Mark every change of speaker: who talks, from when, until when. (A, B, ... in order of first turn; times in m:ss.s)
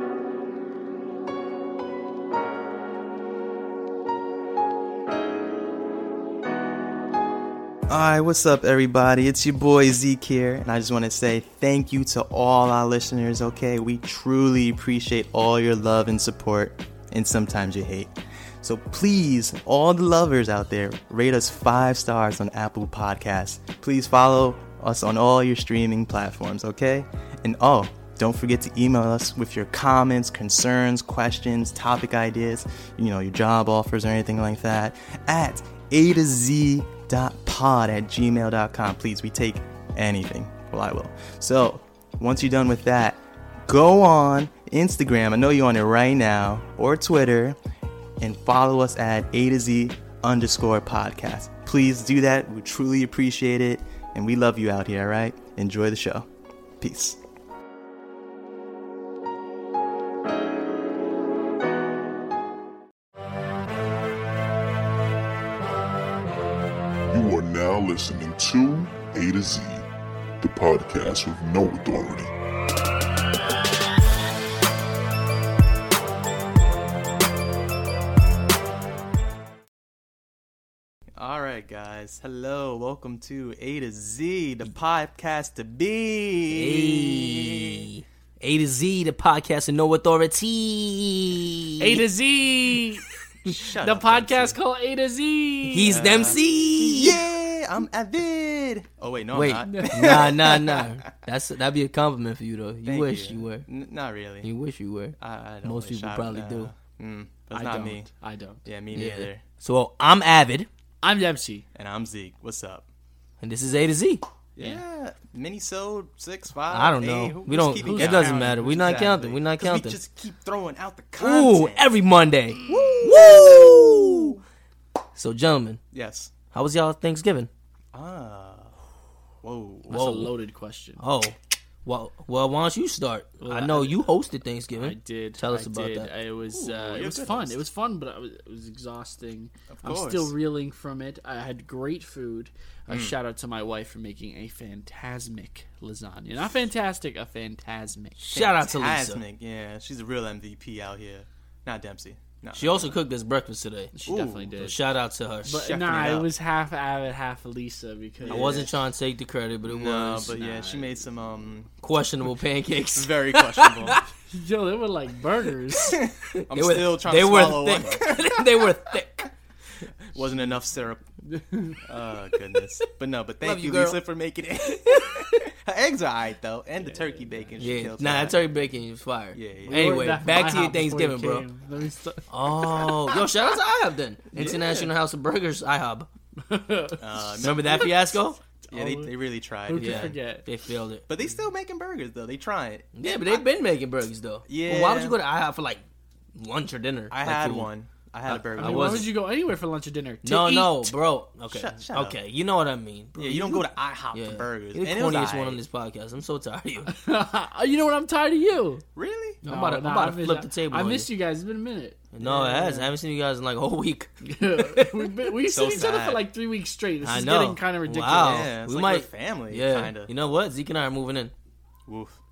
0:07.9-0:47.6 A
0:48.2-0:56.3 A
0:56.8-0:57.2 A
1:07.1-1:09.9 B
1:10.4-1:12.3 B
1:21.2-1:27.8 A
1:26.5-1:32.1 C
1:31.8-1:33.1 D
1:33.4-1:34.6 A
1:33.8-1:36.0 D
1:35.7-1:37.2 C
1:35.8-1:40.9 A
1:39.3-1:43.7 C
1:39.6-1:40.1 D
1:42.8-1:44.5 A
1:44.4-1:46.7 C
1:45.2-1:48.1 A
1:47.5-1:48.6 D
1:48.6-1:49.4 A
1:48.9-1:50.7 C
1:51.0-1:51.7 D
1:51.7-1:52.9 A
1:53.4-1:54.2 C
1:54.6-2:01.9 A
1:54.6-1:54.8 D
1:56.7-2:00.0 C
1:57.8-1:58.7 D
2:01.2-2:04.4 C
2:02.6-2:04.4 A
2:05.2-2:05.8 C
2:05.9-2:06.3 A
2:06.5-2:07.5 C
2:07.9-2:08.8 A
2:09.4-2:10.1 A
2:09.9-2:11.0 D
2:09.9-2:10.3 C
2:11.0-2:16.1 C
2:13.4-2:14.0 D
2:14.7-2:28.2 D
2:16.5-2:17.6 A
2:19.8-2:20.3 A
2:22.9-2:23.2 A
2:28.2-2:29.2 C
2:28.3-2:33.0 A
2:32.5-2:33.9 C
2:33.9-2:34.8 D
2:34.1-2:34.5 A
2:34.6-2:36.2 C
2:35.4-2:38.7 D
2:35.7-2:36.2 A
2:38.2-2:38.7 A
2:38.3-2:40.4 C
2:39.6-2:41.7 A
2:40.3-2:41.2 D
2:41.8-2:44.0 C
2:42.9-2:44.0 A
2:44.3-2:46.0 D
2:46.5-2:49.3 C
2:46.5-2:48.2 A
2:49.9-2:51.1 A
2:51.2-2:51.8 D
2:51.8-2:58.5 A
2:53.4-2:54.0 C
2:54.9-2:55.2 C
2:56.8-2:57.6 D
2:57.6-3:01.5 C
2:59.3-3:00.2 A
2:59.6-3:02.3 D
3:02.3-3:06.1 C
3:04.3-3:04.9 A
3:06.5-3:07.9 D
3:07.0-3:10.2 A
3:07.4-3:08.4 C
3:08.6-3:10.5 D
3:09.8-3:11.1 C
3:11.1-3:13.5 A
3:12.9-3:15.8 C
3:14.4-3:15.2 A
3:16.4-3:17.7 C
3:17.1-3:19.1 A
3:18.3-3:19.1 C
3:18.6-3:20.9 D
3:20.2-3:26.9 C
3:21.5-3:22.2 A
3:23.2-3:25.6 A
3:26.9-3:28.8 D
3:29.0-3:29.4 A
3:29.4-3:31.1 C
3:29.4-3:32.9 D
3:32.1-3:34.1 C
3:34.2-3:38.5 D
3:34.6-3:35.0 C
3:35.5-3:36.2 A
3:37.0-3:41.3 C
3:38.2-3:40.1 A
3:41.9-3:42.2 A